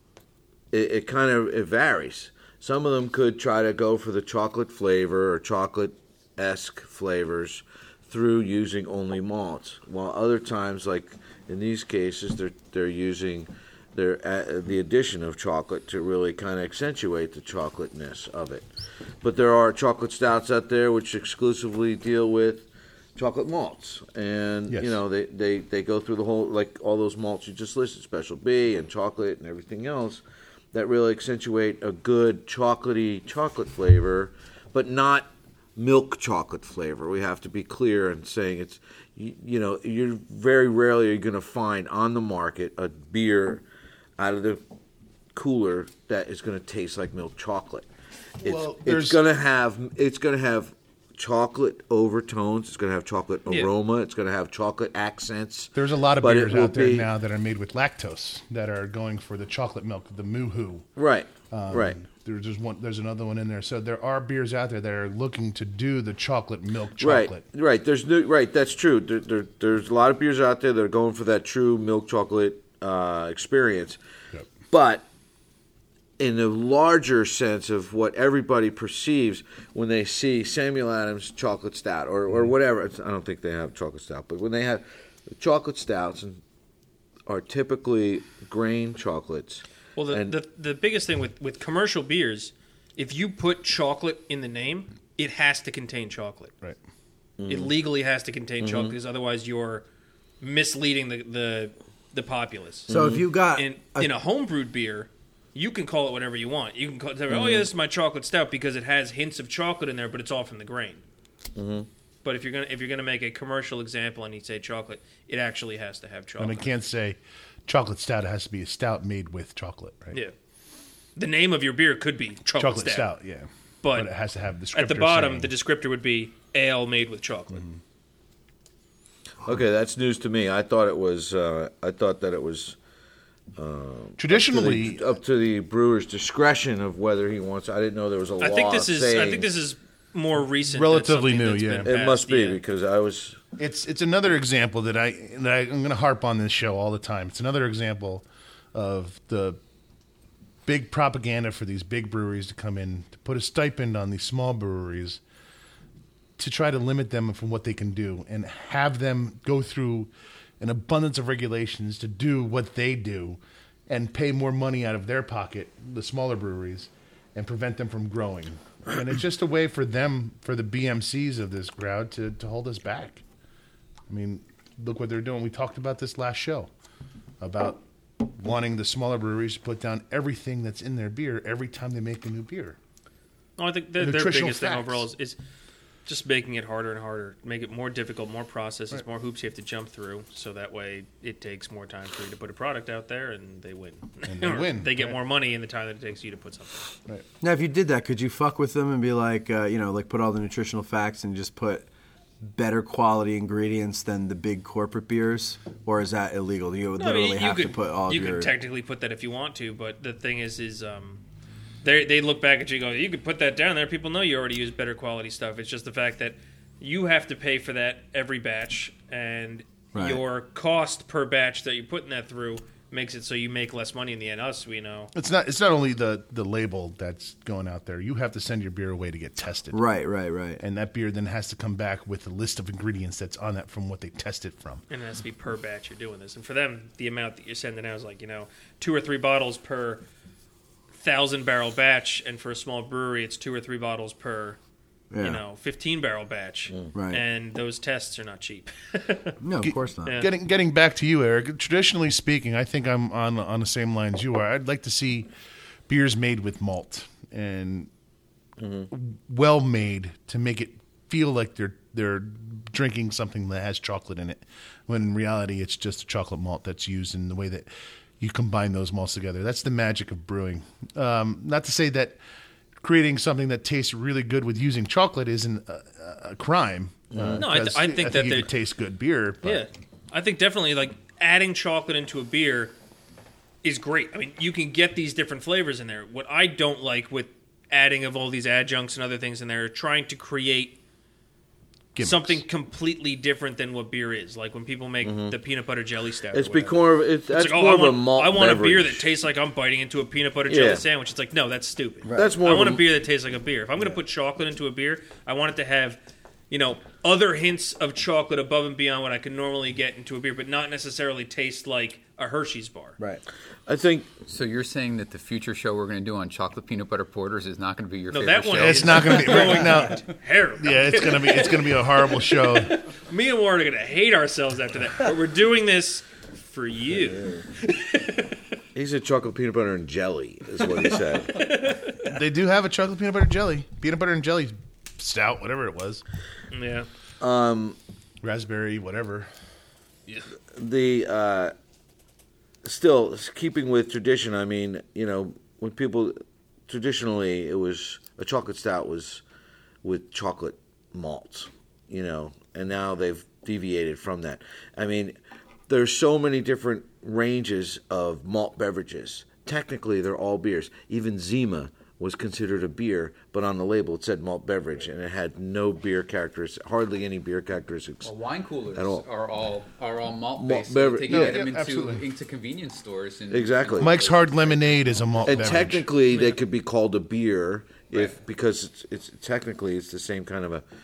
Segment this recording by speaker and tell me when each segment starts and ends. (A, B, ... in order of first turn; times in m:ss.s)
0:00.7-0:18.7 A
0:19.2-0:30.2 A
0:24.7-0:25.0 B
0:30.7-0:43.6 A
0:44.2-0:44.6 A
0:45.4-0:47.9 A
0:48.4-0:57.1 A
0:48.4-0:49.2 B
0:55.8-1:00.9 B
1:01.0-1:02.0 A
1:01.5-1:07.4 B
1:07.0-1:14.0 A
1:14.7-1:15.0 A
1:16.2-1:26.4 A
1:27.3-1:30.4 A
1:30.0-1:36.5 C
1:37.4-1:37.7 A
1:37.5-1:39.8 C
1:38.6-1:38.9 A
1:40.4-1:42.9 C
1:42.9-1:43.2 A
1:42.9-1:44.1 D
1:43.5-1:51.0 C
1:47.3-1:47.7 A
1:51.6-1:51.9 A
1:52.2-1:56.6 C
1:56.4-2:00.2 B
2:01.2-2:03.1 C
2:02.6-2:05.5 B
2:03.8-2:04.1 C
2:04.7-2:07.6 C
2:09.4-2:12.8 A
2:13.6-2:19.5 A
2:14.2-2:15.0 B
2:18.4-2:22.6 C
2:20.7-2:21.9 B
2:21.8-2:23.4 A
2:23.6-2:29.6 B
2:30.7-2:35.2 B
2:36.4-2:40.1 B
2:40.6-2:53.2 B
2:54.1-2:56.7 B
2:57.4-3:02.8 B
3:03.6-3:05.4 C
3:04.0-3:05.1 B
3:06.1-3:16.9 C
3:14.3-3:15.2 B
3:17.4-3:21.9 D
3:22.4-3:28.5 D
3:27.0-3:31.2 C
3:31.8-3:45.1 C
3:39.9-3:40.2 D
3:45.1-3:49.8 B
3:49.7-3:50.6 D
3:50.6-3:54.8 B
3:54.9-4:00.0 C
4:00.9-4:04.6 C
4:05.1-4:05.4 D
4:05.2-4:09.4 C
4:06.9-4:07.2 D
4:09.4-4:10.2 D
4:09.6-4:15.3 B
4:15.9-4:17.9 B
4:18.6-4:18.9 A
4:18.9-4:27.7 B
4:28.2-4:32.2 B
4:32.8-4:39.7 B
4:37.1-4:37.5 A
4:37.4-4:38.5 C
4:39.4-4:42.8 C
4:43.6-4:50.8 C
4:52.0-4:52.4 B
4:52.0-5:06.0 C
4:55.0-4:55.4 A
4:56.3-4:59.1 A
5:00.5-5:00.9 A
5:02.1-5:02.3 D
5:02.2-5:02.8 A
5:06.5-5:13.0 C
5:13.7-5:14.2 A
5:14.3-5:19.8 E
5:18.1-5:28.4 C
5:18.5-5:20.1 B
5:20.6-5:22.8 B
5:28.8-5:31.5 A
5:31.3-5:32.1 C
5:32.0-5:36.0 B
5:36.5-5:36.9 C
5:37.2-5:37.8 A
5:38.2-5:39.3 B
5:40.5-5:41.5 A
5:42.6-5:46.2 A
5:46.7-5:49.2 A
5:49.8-5:55.2 A
5:55.7-6:08.1 A
6:08.0-6:15.8 E
6:08.8-6:09.0 A
6:10.4-6:11.4 A
6:11.1-6:12.0 B
6:13.3-6:14.0 A
6:13.8-6:15.8 B
6:15.2-6:20.6 A
6:16.1-6:16.4 C